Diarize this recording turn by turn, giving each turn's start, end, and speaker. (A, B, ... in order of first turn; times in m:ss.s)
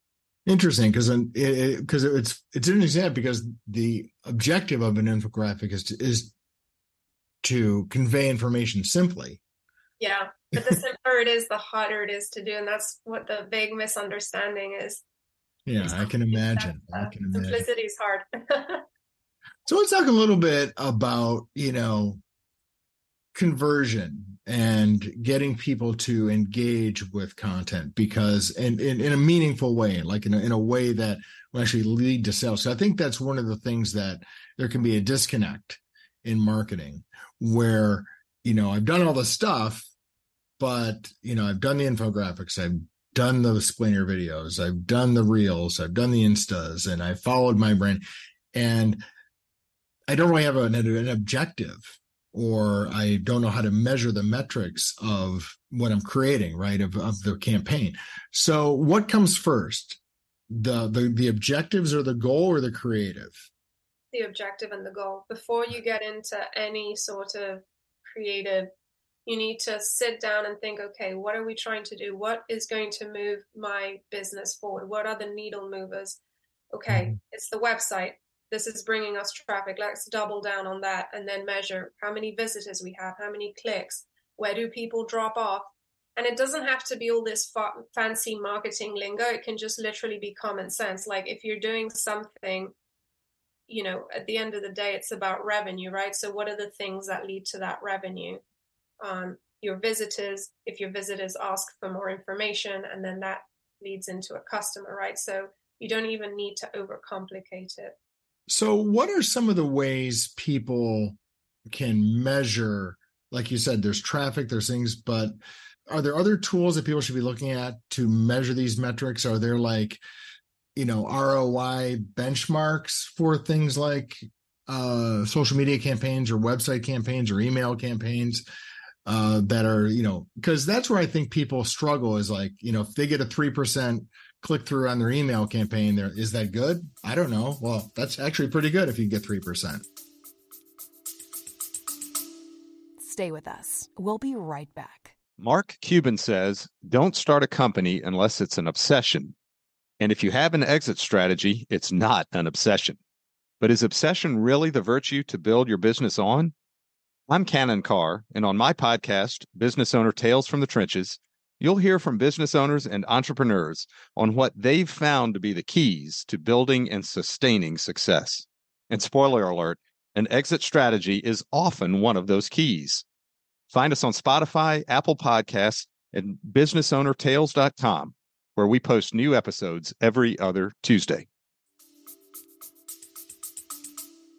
0:00.4-0:06.3 A
0:07.4-0:09.4 A
0:10.0-0:15.0 B
0:15.6-0:17.6 A
0:15.8-0:18.8 B
0:19.6-0:22.2 A
0:23.3-0:39.9 A
0:40.6-0:48.0 A
0:48.5-0:49.0 A
0:50.1-1:00.0 A
1:00.5-1:03.4 A
1:04.1-1:08.7 B
1:09.2-1:16.2 B
1:16.7-1:32.7 B
1:16.9-1:17.1 A
1:33.7-1:38.4 B
1:39.0-1:47.9 B
1:48.5-1:51.2 A
1:51.7-1:55.3 A
1:55.9-2:00.0 A
2:00.8-2:08.4 A
2:09.0-2:19.8 A
2:23.0-2:25.1 C
2:25.4-2:29.3 D
2:30.0-2:33.0 D
2:33.6-2:36.5 D
2:37.3-2:53.0 D
2:53.7-3:01.2 D